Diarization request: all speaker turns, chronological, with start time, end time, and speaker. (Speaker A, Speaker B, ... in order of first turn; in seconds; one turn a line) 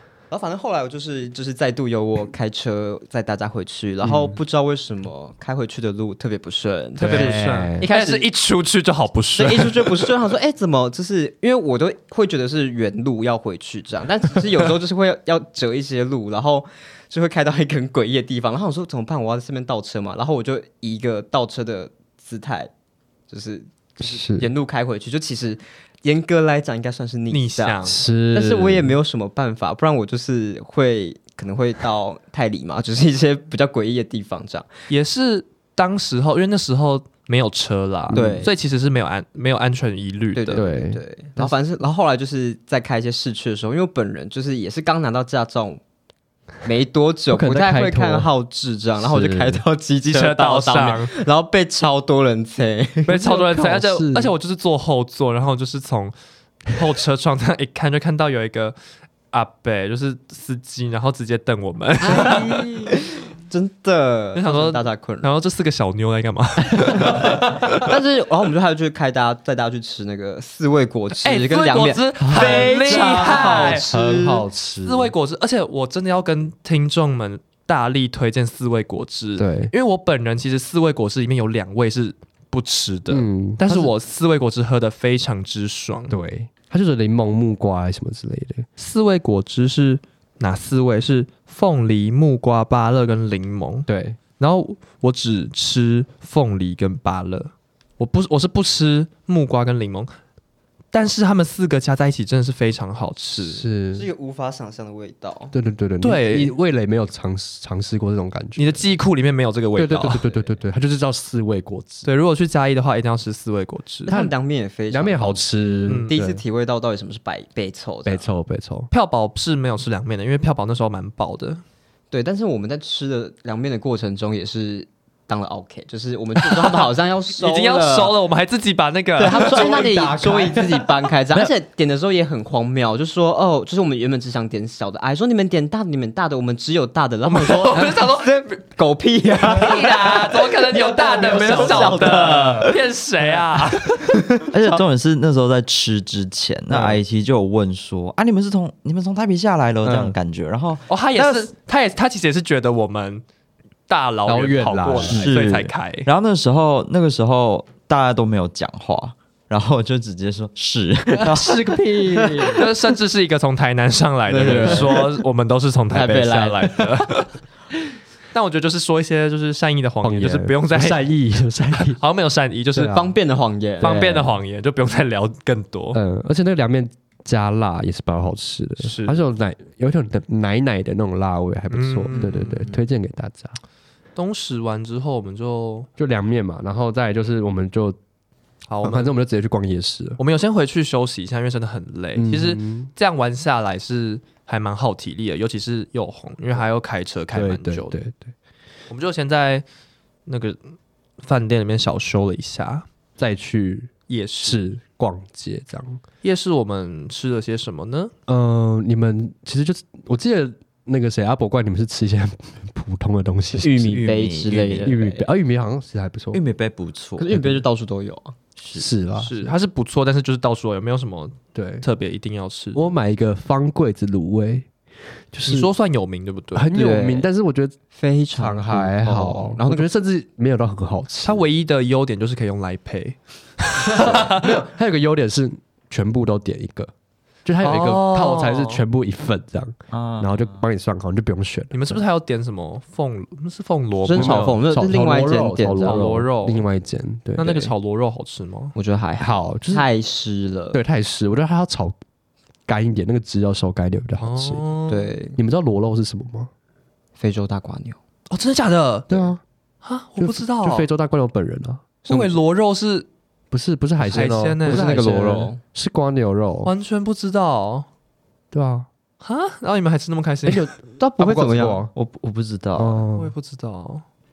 Speaker A: 0.3-8.3
Speaker B: 4.0-4.4
Speaker B: 7.0-7.9
Speaker C: 7.0-10.1
Speaker A: 9.3-22.7
Speaker A: 23.3-34.7
Speaker B: 24.0-24.5
Speaker C: 27.3-28.0
Speaker B: 27.8-29.0
Speaker C: 34.9-40.6
Speaker B: 38.1-38.5
Speaker A: 38.1-38.5
Speaker A: 40.3-45.8
Speaker B: 40.5-41.5
Speaker A: 46.6-53.1
Speaker B: 47.3-48.3
Speaker B: 49.0-49.6
Speaker C: 50.1-51.1
Speaker C: 53.0-56.1
Speaker B: 53.1-54.3
Speaker C: 56.7-58.8
Speaker C: 59.3-62.7
Speaker A: 62.0-65.3
Speaker C: 64.3-67.9
Speaker A: 67.0-74.4
Speaker B: 67.1-67.6
Speaker C: 71.2-73.9
Speaker B: 72.2-75.1
Speaker C: 74.8-86.1
Speaker B: 79.4-79.7
Speaker B: 83.1-83.9
Speaker B: 86.1-88.7
Speaker C: 88.8-93.9
Speaker B: 93.9-94.2
Speaker C: 94.4-100.1
Speaker C: 100.9-103.7
Speaker B: 103.4-104.1
Speaker A: 103.9-105.5
Speaker B: 105.5-108.8
Speaker C: 106.0-106.5
Speaker C: 108.5-110.2
Speaker B: 109.8-112.1
Speaker C: 112.0-114.2
Speaker B: 114.1-114.3
Speaker A: 114.1-118.2
Speaker B: 114.9-116.4
Speaker C: 115.8-116.1
Speaker B: 118.0-118.9
Speaker C: 118.9-121.6
Speaker A: 122.1-128.2
Speaker C: 127.4-129.9
Speaker A: 129.2-142.7
Speaker B: 129.3-131.5
Speaker C: 137.2-138.6
Speaker C: 139.4-144.1
Speaker B: 140.7-142.7
Speaker A: 143.8-144.8
Speaker D: 144.5-150.8
Speaker B: 146.7-147.0
Speaker B: 149.8-150.2
Speaker C: 150.9-153.2
Speaker C: 153.9-156.1
Speaker B: 154.2-155.3
Speaker D: 155.1-161.8
Speaker B: 161.2-162.7
Speaker C: 162.6-167.4
Speaker A: 164.3-165.1
Speaker B: 164.5-164.8
Speaker A: 165.9-166.9
Speaker C: 168.3-171.1
Speaker B: 170.0-172.0
Speaker C: 171.7-173.0
Speaker B: 172.7-173.0
Speaker A: 172.9-174.0
Speaker B: 173.8-174.4
Speaker C: 173.8-176.0
Speaker B: 175.9-183.6
Speaker C: 178.8-179.2
Speaker C: 181.7-182.8
Speaker C: 184.1-185.9
Speaker B: 186.0-188.0
Speaker C: 188.7-189.1
Speaker B: 188.8-190.2
Speaker C: 190.2-197.9
Speaker B: 192.2-192.9
Speaker B: 197.3-198.3
Speaker C: 198.9-199.6
Speaker C: 200.2-202.8
Speaker B: 203.2-203.9
Speaker C: 204.1-204.6
Speaker B: 204.4-206.0
Speaker C: 206.2-208.1
Speaker B: 208.3-214.1
Speaker A: 213.6-215.2
Speaker D: 213.9-214.9
Speaker B: 214.8-216.4
Speaker D: 216.3-217.5
Speaker A: 217.2-218.3
Speaker B: 217.3-217.6
Speaker D: 218.6-218.9
Speaker B: 218.7-219.5
Speaker C: 219.2-222.8
Speaker B: 221.5-221.8
Speaker B: 222.7-224.7
Speaker B: 225.3-225.7
Speaker C: 225.5-226.7
Speaker B: 226.5-227.7
Speaker A: 226.7-227.3
Speaker A: 227.9-229.9
Speaker B: 228.3-231.4
Speaker C: 231.2-234.6
Speaker B: 233.8-236.9
Speaker B: 237.4-242.0
Speaker C: 237.6-238.8
Speaker D: 239.9-240.6
Speaker C: 241.7-244.5
Speaker A: 244.0-246.1
Speaker B: 244.1-247.6
Speaker C: 245.8-246.6
Speaker C: 247.4-248.7
Speaker A: 247.4-247.7
Speaker A: 248.7-250.8
Speaker B: 249.2-249.8
Speaker B: 250.7-251.9
Speaker B: 252.7-254.6
Speaker C: 254.2-255.1
Speaker A: 254.9-255.4
Speaker B: 255.3-256.5
Speaker A: 257.2-258.0
Speaker C: 258.3-259.2
Speaker B: 259.1-259.4
Speaker C: 259.8-260.9
Speaker B: 260.2-261.9
Speaker C: 262.1-263.1
Speaker A: 262.1-262.3
Speaker B: 263.5-266.7
Speaker C: 264.0-265.0
Speaker A: 264.6-265.6
Speaker C: 266.6-267.9
Speaker B: 268.5-268.9
Speaker C: 269.2-270.6
Speaker B: 270.4-271.9
Speaker A: 271.2-271.8
Speaker D: 271.9-273.0
Speaker B: 272.7-273.3
Speaker C: 273.1-274.0